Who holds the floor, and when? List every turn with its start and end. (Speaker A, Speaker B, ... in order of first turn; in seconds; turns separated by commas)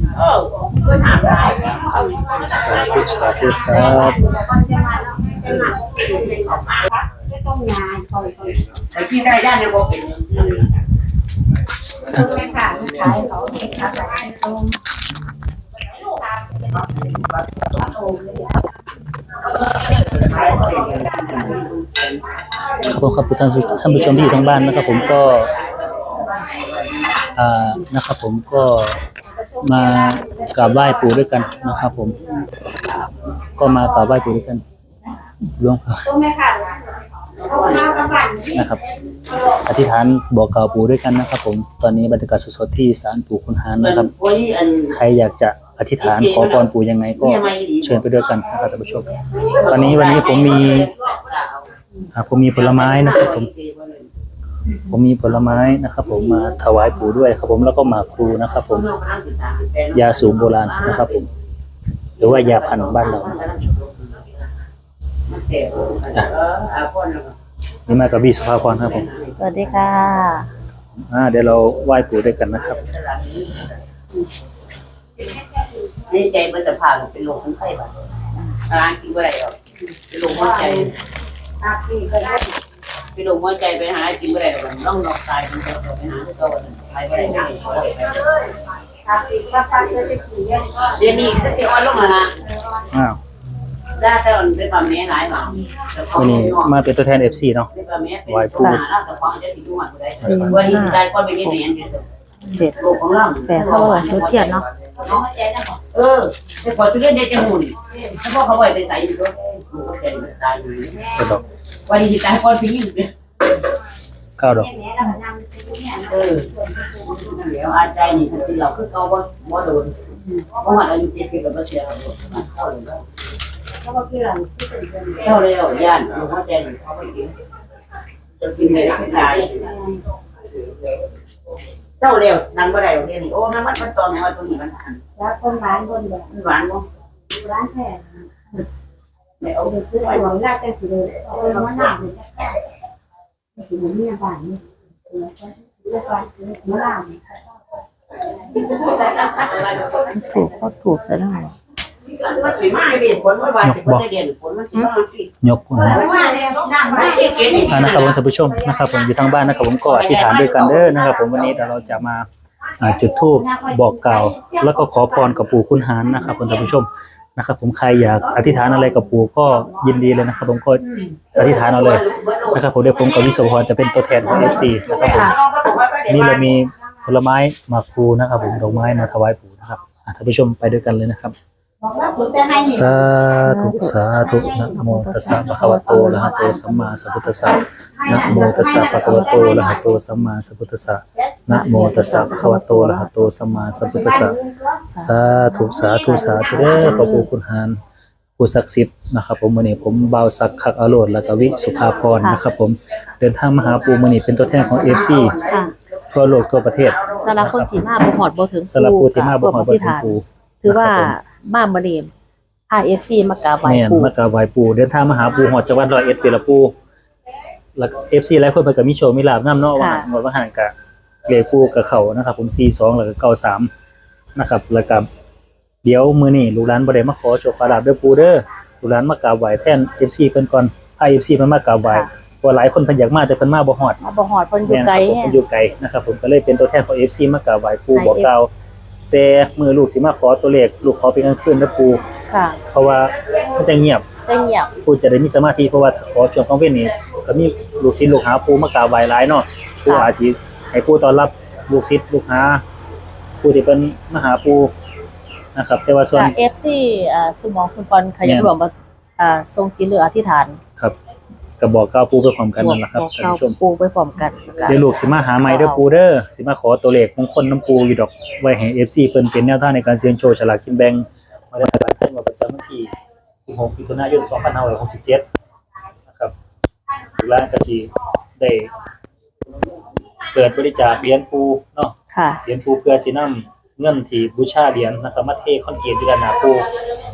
Speaker A: 0.1-3.9, Speaker B: 0.8-1.9, Speaker C: 2.3-4.2, Speaker D: 3.1-6.2, Speaker B: 6.1-6.8, Speaker A: 6.4-6.8, Speaker D: 7.0-8.8, Speaker B: 8.9-10.8, Speaker D: 12.1-14.7, Speaker D: 17.8-18.5, Speaker B: 19.6-22.2, Speaker C: 22.9-25.5, Speaker B: 23.8-26.7, Speaker C: 27.4-29.0, Speaker D: 29.6-31.4, Speaker C: 29.6-32.2, Speaker C: 33.6-34.6, Speaker D: 33.6-34.4, Speaker C: 35.6-36.1, Speaker D: 36.0-36.8, Speaker B: 37.4-38.1, Speaker D: 37.4-38.8, Speaker C: 38.5-38.8, Speaker C: 39.6-44.1, Speaker B: 43.8-45.0, Speaker C: 44.9-50.9, Speaker B: 46.0-48.1, Speaker B: 49.4-51.7, Speaker C: 52.1-53.5, Speaker B: 52.5-54.1, Speaker C: 54.9-58.9, Speaker B: 58.6-61.3, Speaker C: 59.9-61.2, Speaker C: 62.2-63.6, Speaker B: 62.2-64.2, Speaker B: 65.3-67.3, Speaker C: 67.9-69.1, Speaker B: 68.6-69.8, Speaker E: 69.4-70.5, Speaker C: 71.0-72.8, Speaker B: 72.5-73.8, Speaker B: 76.0-78.0, Speaker B: 78.6-79.6, Speaker B: 80.1-80.9, Speaker D: 80.3-80.9, Speaker D: 81.6-82.6, Speaker B: 83.1-88.3, Speaker D: 89.1-91.0, Speaker B: 91.0-92.3, Speaker C: 92.9-93.2, Speaker B: 94.0-96.7, Speaker C: 96.1-97.7, Speaker B: 97.7-102.0, Speaker C: 98.3-98.8, Speaker C: 100.2-100.8, Speaker E: 100.2-101.6, Speaker E: 102.5-102.8, Speaker B: 102.8-105.2, Speaker E: 103.5-104.7, Speaker D: 105.0-105.8, Speaker B: 105.9-111.2, Speaker C: 111.1-111.4, Speaker B: 111.9-113.1, Speaker C: 114.4-114.7, Speaker D: 114.5-117.2, Speaker B: 116.1-120.0, Speaker B: 120.5-123.0, Speaker D: 123.8-125.4, Speaker B: 125.2-127.3, Speaker B: 128.4-129.7, Speaker B: 132.0-135.0, Speaker D: 135.2-136.3, Speaker B: 136.3-136.9, Speaker D: 137.3-138.6, Speaker B: 139.4-140.3, Speaker D: 139.7-142.6, Speaker B: 141.4-141.9, Speaker D: 143.6-147.3, Speaker D: 148.7-149.3, Speaker B: 149.1-150.1, Speaker E: 150.2-151.5, Speaker B: 152.1-155.3, Speaker C: 153.6-154.1, Speaker C: 155.4-156.1, Speaker D: 155.7-160.0, Speaker B: 155.9-158.2, Speaker C: 157.7-162.3, Speaker B: 159.9-161.7, Speaker C: 162.8-175.4, Speaker D: 162.9-166.3, Speaker B: 171.3-172.7, Speaker D: 173.0-175.3, Speaker B: 174.2-176.6, Speaker C: 176.1-181.3, Speaker D: 181.8-183.3, Speaker C: 182.6-194.4, Speaker E: 183.4-186.9, Speaker D: 184.2-184.8, Speaker D: 185.5-186.8, Speaker D: 188.0-190.0, Speaker E: 188.7-189.7, Speaker E: 191.5-193.8, Speaker D: 191.9-192.4, Speaker D: 193.7-194.8, Speaker E: 194.9-195.1, Speaker C: 195.0-197.8, Speaker D: 195.6-197.2, Speaker E: 197.0-197.3, Speaker C: 198.4-205.4, Speaker B: 201.5-202.3, Speaker B: 204.6-205.7, Speaker C: 206.1-207.8, Speaker B: 206.7-207.3, Speaker E: 207.2-212.1, Speaker C: 208.7-211.1, Speaker E: 212.7-214.1, Speaker C: 213.6-216.7, Speaker C: 217.8-220.7, Speaker E: 219.8-220.1, Speaker C: 221.3-223.7, Speaker C: 224.4-225.1, Speaker C: 225.8-234.0, Speaker E: 234.0-235.4, Speaker C: 234.6-238.5, Speaker E: 237.9-238.3, Speaker C: 239.1-242.0, Speaker E: 242.3-242.6, Speaker C: 242.7-244.1, Speaker E: 244.2-244.7, Speaker C: 244.8-252.6, Speaker C: 253.4-254.7, Speaker C: 255.6-256.4, Speaker E: 256.1-260.6, Speaker C: 258.2-258.5, Speaker C: 261.6-263.6, Speaker E: 262.6-264.8, Speaker C: 264.7-272.9, Speaker E: 265.4-265.8, Speaker C: 273.4-275.2, Speaker C: 276.1-276.3, Speaker C: 277.2-278.7, Speaker C: 280.3-286.7, Speaker E: 282.1-282.4